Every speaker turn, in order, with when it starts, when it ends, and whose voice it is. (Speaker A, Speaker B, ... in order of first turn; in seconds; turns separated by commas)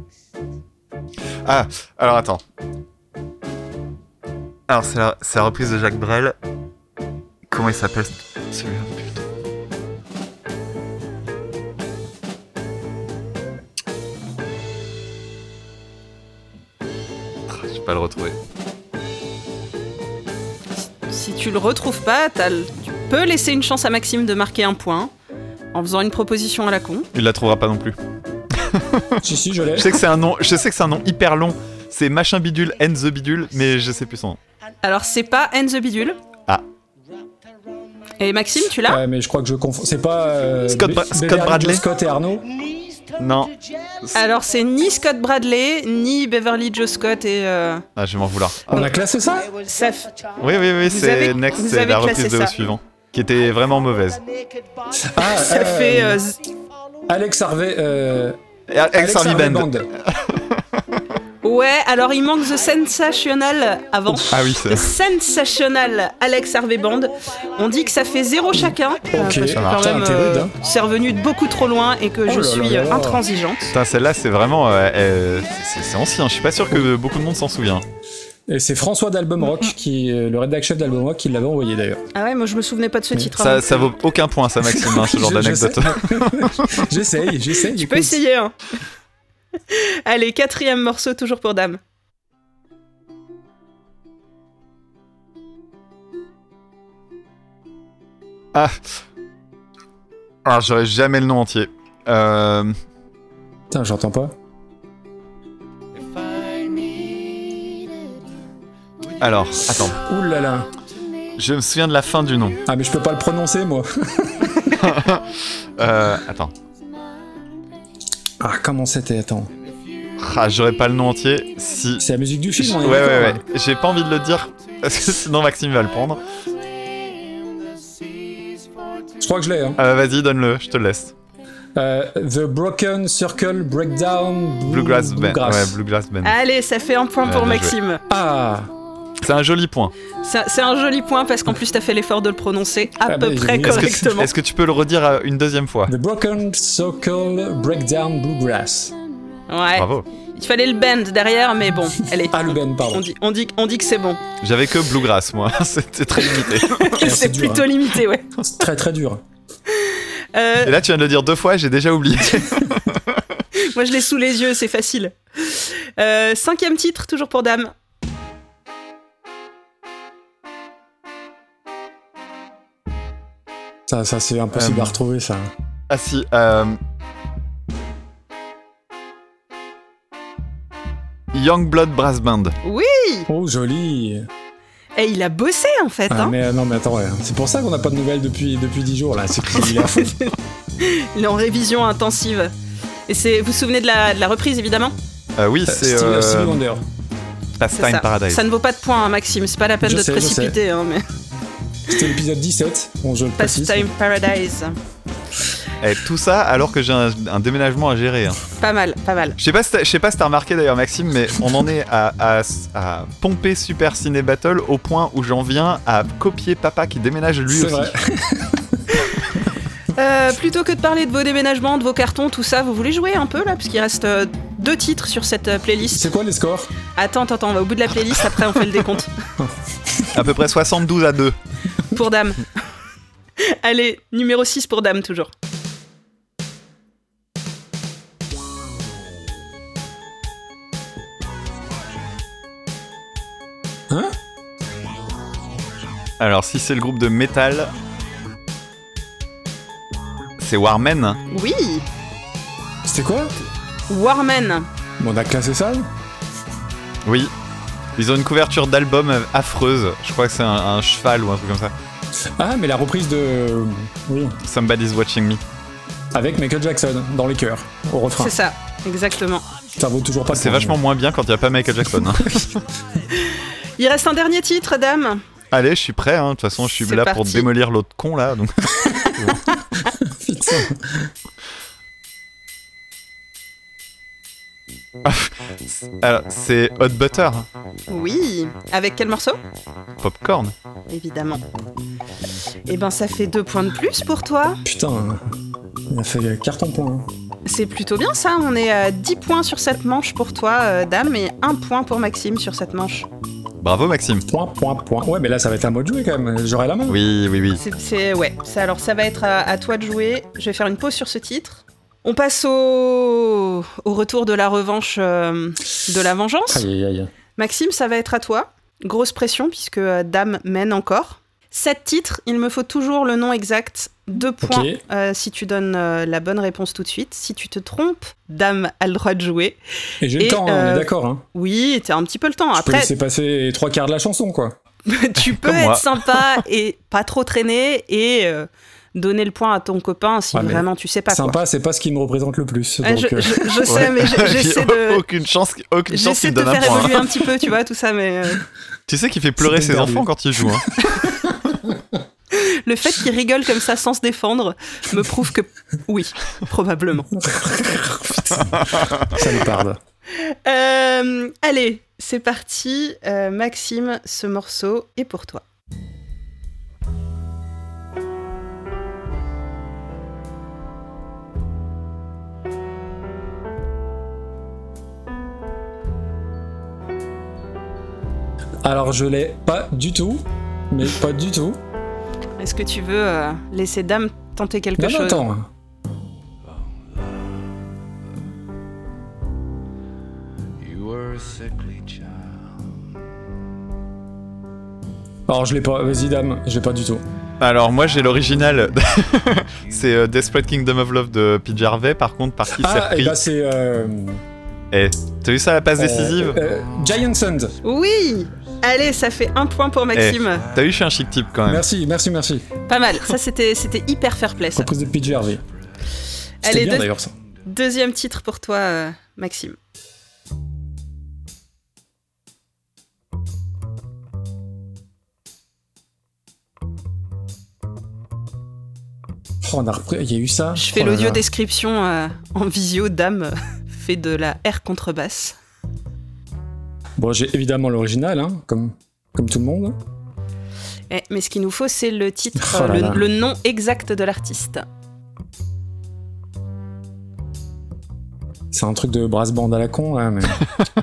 Speaker A: 1.5-2.4, Speaker A: 4.7-6.3, Speaker A: 7.5-9.2, Speaker A: 17.5-18.4, Speaker B: 21.0-25.1, Speaker B: 25.7-27.1, Speaker A: 27.1-28.0, Speaker A: 28.6-29.2, Speaker C: 29.2-30.0, Speaker A: 29.8-34.4, Speaker B: 34.8-36.2, Speaker B: 38.2-39.0, Speaker C: 38.9-42.5, Speaker A: 40.7-41.8, Speaker A: 43.2-44.1, Speaker B: 44.1-47.9, Speaker A: 48.0-48.9, Speaker C: 48.7-49.5, Speaker B: 49.6-50.1, Speaker A: 50.4-54.2, Speaker B: 50.9-52.5, Speaker C: 55.0-56.2, Speaker B: 55.2-56.4, Speaker C: 57.1-58.4, Speaker A: 58.7-60.4, Speaker C: 58.9-59.9, Speaker B: 61.4-73.8, Speaker A: 64.3-64.9, Speaker C: 68.5-70.5, Speaker A: 69.5-69.8, Speaker C: 72.3-73.2, Speaker A: 73.7-77.8, Speaker C: 78.5-82.0, Speaker B: 82.2-83.9, Speaker A: 83.4-86.8, Speaker C: 84.6-88.2, Speaker B: 87.7-88.5, Speaker B: 89.7-91.8, Speaker A: 100.5-102.7, Speaker C: 103.7-104.3, Speaker A: 109.2-110.0, Speaker C: 109.8-110.7, Speaker A: 111.4-112.6, Speaker C: 112.7-114.7, Speaker A: 114.7-116.5, Speaker C: 118.4-119.5, Speaker A: 120.2-122.0, Speaker C: 122.0-123.4, Speaker A: 122.6-126.2, Speaker C: 129.2-129.8, Speaker A: 129.8-131.1, Speaker C: 131.8-135.8, Speaker A: 134.7-136.3, Speaker B: 136.2-138.0, Speaker A: 137.2-137.8, Speaker C: 138.1-138.7, Speaker A: 139.2-139.9, Speaker B: 140.2-144.3, Speaker C: 143.1-144.1, Speaker A: 143.6-145.9, Speaker C: 145.9-149.0, Speaker B: 149.5-154.2, Speaker A: 149.8-150.1, Speaker C: 152.3-153.0, Speaker A: 154.4-156.9, Speaker B: 156.7-158.4, Speaker C: 157.0-157.7, Speaker C: 158.4-159.2, Speaker B: 159.7-160.8, Speaker A: 160.6-163.2, Speaker B: 163.6-167.7, Speaker C: 173.9-175.5, Speaker A: 174.6-174.9, Speaker A: 175.9-176.8, Speaker A: 181.3-182.6, Speaker B: 182.6-183.3, Speaker C: 183.3-184.3, Speaker B: 185.0-186.3, Speaker C: 186.1-190.2, Speaker B: 189.6-192.5, Speaker B: 193.1-194.9, Speaker A: 195.4-196.6, Speaker C: 195.7-196.8, Speaker A: 197.6-198.4, Speaker B: 197.8-201.0, Speaker C: 199.8-200.6, Speaker C: 201.9-203.9, Speaker B: 203.4-204.8, Speaker A: 205.8-208.4, Speaker B: 208.6-209.4, Speaker A: 209.4-217.9, Speaker C: 217.5-218.8, Speaker B: 219.9-226.0, Speaker C: 225.9-226.7, Speaker B: 226.9-229.1, Speaker C: 229.4-230.2, Speaker A: 230.1-231.4, Speaker B: 231.9-232.4, Speaker B: 233.4-235.3, Speaker C: 243.9-244.2, Speaker A: 246.2-247.7, Speaker A: 250.4-251.2, Speaker B: 251.3-251.8, Speaker C: 252.8-253.3, Speaker B: 253.9-254.7, Speaker C: 255.0-255.9, Speaker A: 257.1-257.3, Speaker A: 258.0-261.7, Speaker C: 262.4-264.4, Speaker A: 264.4-265.4, Speaker C: 266.1-268.4, Speaker B: 268.2-269.4, Speaker C: 269.8-270.8, Speaker A: 270.3-272.5, Speaker B: 273.1-275.2, Speaker A: 275.5-278.5, Speaker B: 276.8-277.5, Speaker C: 279.9-281.1, Speaker A: 285.1-287.5, Speaker B: 287.9-289.4, Speaker A: 290.0-290.5, Speaker B: 290.9-291.4, Speaker B: 292.7-294.6, Speaker C: 294.6-295.2, Speaker C: 295.9-297.1, Speaker B: 297.5-303.1, Speaker A: 303.6-304.2, Speaker C: 304.3-307.0, Speaker A: 306.9-307.6, Speaker B: 307.6-316.6, Speaker C: 316.5-317.1, Speaker B: 317.4-329.6, Speaker C: 324.4-324.8, Speaker C: 330.0-331.2, Speaker B: 330.2-332.9, Speaker C: 332.6-334.6, Speaker B: 334.9-341.4, Speaker A: 335.3-336.4, Speaker C: 340.3-343.7, Speaker B: 342.8-345.0, Speaker A: 343.7-347.1, Speaker B: 345.9-348.4, Speaker A: 348.9-350.7, Speaker C: 349.4-351.8, Speaker B: 352.3-357.1, Speaker C: 357.1-359.8, Speaker B: 360.1-365.4, Speaker C: 378.6-381.6, Speaker B: 382.4-385.3, Speaker C: 384.8-385.5, Speaker D: 386.9-387.5, Speaker D: 390.6-392.5, Speaker C: 395.3-397.0, Speaker A: 397.4-403.2, Speaker C: 402.5-404.2, Speaker A: 404.7-406.4, Speaker C: 405.8-407.6, Speaker B: 407.6-410.4, Speaker A: 409.9-411.6, Speaker C: 411.5-412.5, Speaker B: 412.7-414.7, Speaker C: 414.6-415.4, Speaker C: 416.4-417.1, Speaker B: 416.4-416.9, Speaker B: 417.4-419.6, Speaker C: 429.4-431.2, Speaker B: 430.6-435.4, Speaker C: 437.0-439.8, Speaker B: 440.9-444.6, Speaker C: 442.4-443.1, Speaker C: 448.5-450.4